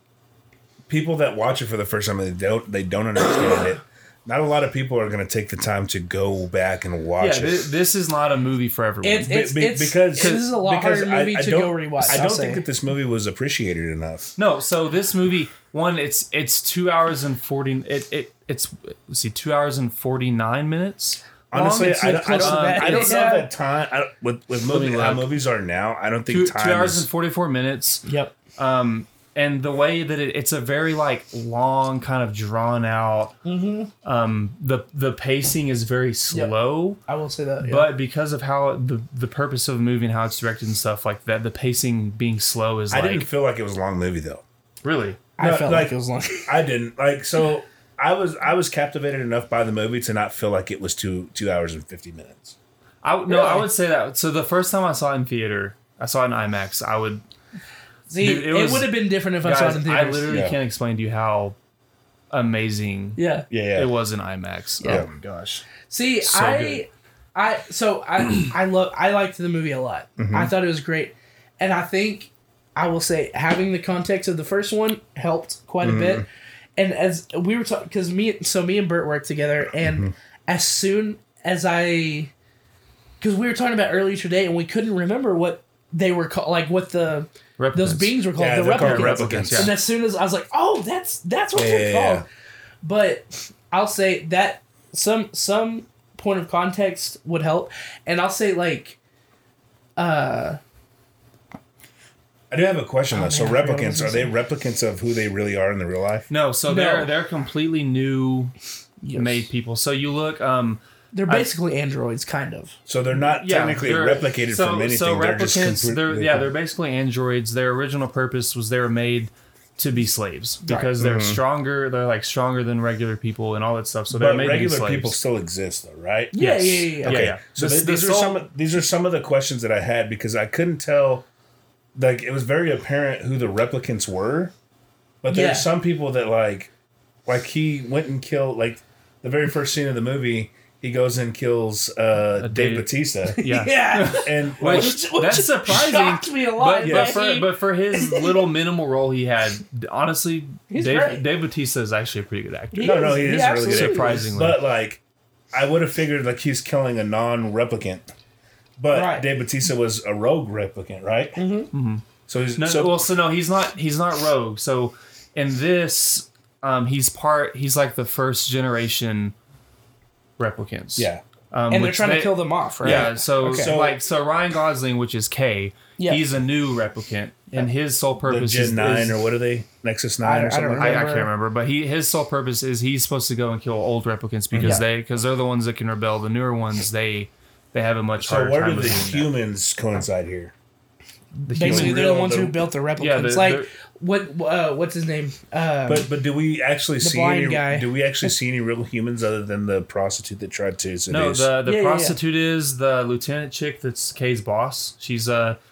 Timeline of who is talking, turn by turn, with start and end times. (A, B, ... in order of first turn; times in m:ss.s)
0:00.9-0:07.7 A
0:07.2-0:09.4 B
0:09.0-0:12.6 C
0:09.2-0:14.3 A
0:10.2-0:10.5 B
0:14.4-0:23.3 B
0:21.5-0:27.1 A
0:21.9-0:23.5 C
0:24.7-0:25.3 B
0:26.3-0:33.4 B
0:28.1-0:28.4 C
0:33.4-0:33.9 C
0:34.0-0:37.0 B
0:37.1-0:37.9 C
0:37.6-0:43.3 B
0:42.9-0:44.4 A
0:44.8-0:45.3 B
0:45.4-0:46.5 C
0:45.4-0:45.9 A
0:46.4-0:52.6 A
0:53.0-0:57.2 B
0:53.3-0:53.6 C
0:58.1-1:00.4 C
0:58.2-1:01.6 B
1:00.3-1:00.6 A
1:02.3-1:03.2 B
1:03.2-1:03.5 C
1:03.5-1:03.9 A
1:03.8-1:05.1 B
1:04.8-1:05.6 A
1:05.9-1:22.3 C
1:06.2-1:06.8 B
1:10.2-1:10.5 A
1:15.8-1:16.2 A
1:19.8-1:20.1 A
1:23.2-1:32.3 C
1:27.6-1:28.2 B
1:28.4-1:29.7 A
1:28.7-1:29.8 B
1:31.6-1:32.3 A
1:32.8-1:39.0 C
1:40.0-1:40.6 C
1:42.5-1:46.3 A
1:43.1-1:44.3 C
1:46.3-1:48.5 B
1:46.7-1:47.1 C
1:49.0-1:49.5 C
1:49.1-1:51.5 B
1:51.1-1:52.8 C
1:52.9-1:56.5 A
1:53.3-2:05.2 B
2:01.0-2:01.4 A
2:04.1-2:06.4 A
2:06.3-2:07.3 C
2:06.4-2:08.4 B
2:07.0-2:11.3 A
2:12.0-2:14.5 A
2:15.2-2:16.7 A
2:15.3-2:15.7 C
2:17.3-2:23.4 A
2:22.4-2:34.6 B
2:23.4-2:28.4 C
2:24.1-2:25.0 A
2:26.8-2:27.2 A
2:30.7-2:31.2 C
2:32.7-2:34.1 C
2:32.8-2:35.0 A
2:35.5-2:38.1 A
2:38.8-2:41.4 A
2:38.9-2:39.3 C
2:41.4-2:41.7 C
2:41.7-2:49.3 B
2:42.3-2:43.0 A
2:50.4-2:59.2 B
2:51.0-2:51.2 A
2:51.7-2:53.7 C
2:52.8-2:54.0 A
2:58.2-3:01.0 A
3:00.2-3:01.3 C
3:00.8-3:09.3 B
3:04.5-3:04.8 A
3:08.2-3:10.5 A
3:11.4-3:16.1 C
3:11.5-3:12.3 B
3:11.6-3:12.6 A
3:13.0-3:13.7 B
3:15.9-3:21.5 A
3:17.0-3:17.9 C
3:21.1-3:25.6 B
3:21.6-3:22.2 C